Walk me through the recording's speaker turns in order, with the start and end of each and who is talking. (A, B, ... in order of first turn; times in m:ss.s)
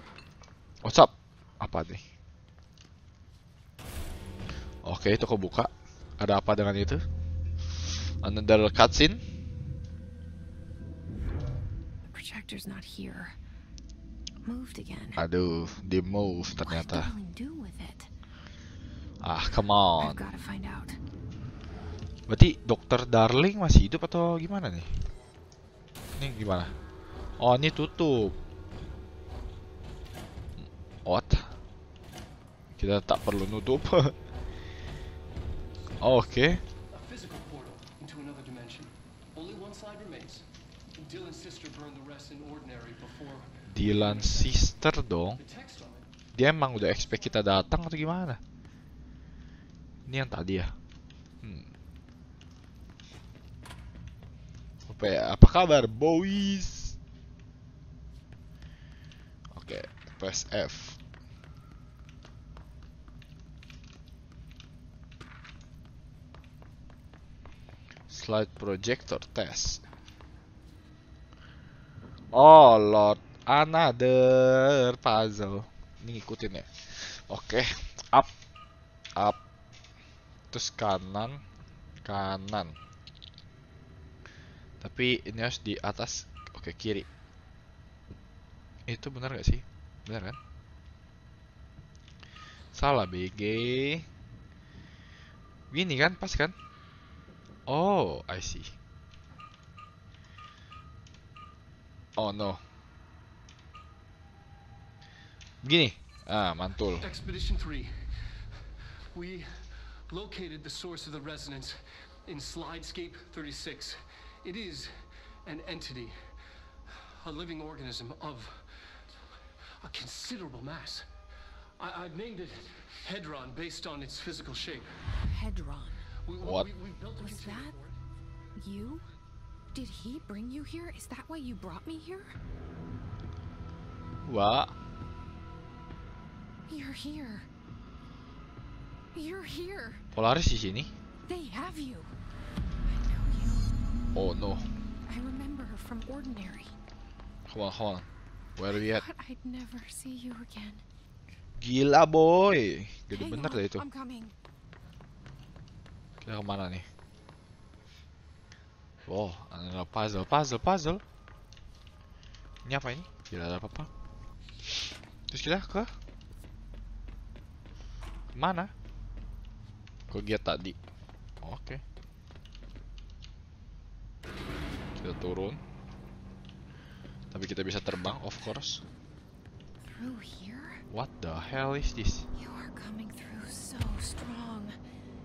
0:00.8-0:02.0 A
0:04.8-0:07.0 A
0:08.2-0:09.2 A
0:12.0-0:13.4 B
0:14.4-0:15.2 B
0:15.2-0:17.1 A
0:16.6-0:18.1 B
0:19.2-0:20.2 A
0:20.0-0:21.0 B
0:22.3-0:24.9 A
0:26.2-0:26.7 A
0:27.4-0:28.3 A
0:30.6-0:31.5 A
0:32.8-0:34.1 A
0:36.0-0:36.6 A
0:36.9-0:40.4 C
0:41.0-0:44.7 C
0:43.7-0:45.4 A
0:45.4-0:46.1 C
0:46.3-0:48.4 A
0:50.1-0:50.7 A
0:51.4-0:51.7 A
0:54.8-0:56.9 A
0:59.5-1:01.0 A
1:08.1-1:09.8 A
1:12.3-1:18.3 A
1:20.5-1:21.4 A
1:22.0-1:22.8 A
1:24.8-1:27.0 A
1:28.9-1:30.4 A
1:32.7-1:34.0 A
1:35.7-1:36.5 A
1:37.7-1:38.7 A
1:42.2-1:42.6 A
1:45.6-1:47.0 A
1:47.0-1:56.2 C
1:56.9-2:01.1 C
2:01.8-2:04.9 C
2:05.2-2:06.0 B
2:06.2-2:08.0 C
2:07.2-2:07.7 B
2:08.6-2:09.1 B
2:09.7-2:12.4 B
2:14.2-2:14.7 A
2:16.7-2:17.5 B
2:19.1-2:20.0 B
2:20.1-2:20.9 A
2:21.2-2:22.1 B
2:22.8-2:23.6 B
2:24.1-2:24.6 A
2:25.0-2:26.7 B
2:27.5-2:29.0 A
2:28.7-2:30.8 B
2:31.6-2:33.8 A
2:33.1-2:34.3 B
2:36.2-2:36.8 A
2:39.0-2:41.0 A
2:42.6-2:43.9 A
2:45.3-2:45.9 A
2:48.3-2:48.7 A
2:50.1-2:50.8 A
2:51.4-2:51.8 A
2:55.0-2:55.6 A
2:57.3-2:58.8 A
2:59.8-3:00.8 B
3:00.9-3:02.2 A
3:02.3-3:04.8 B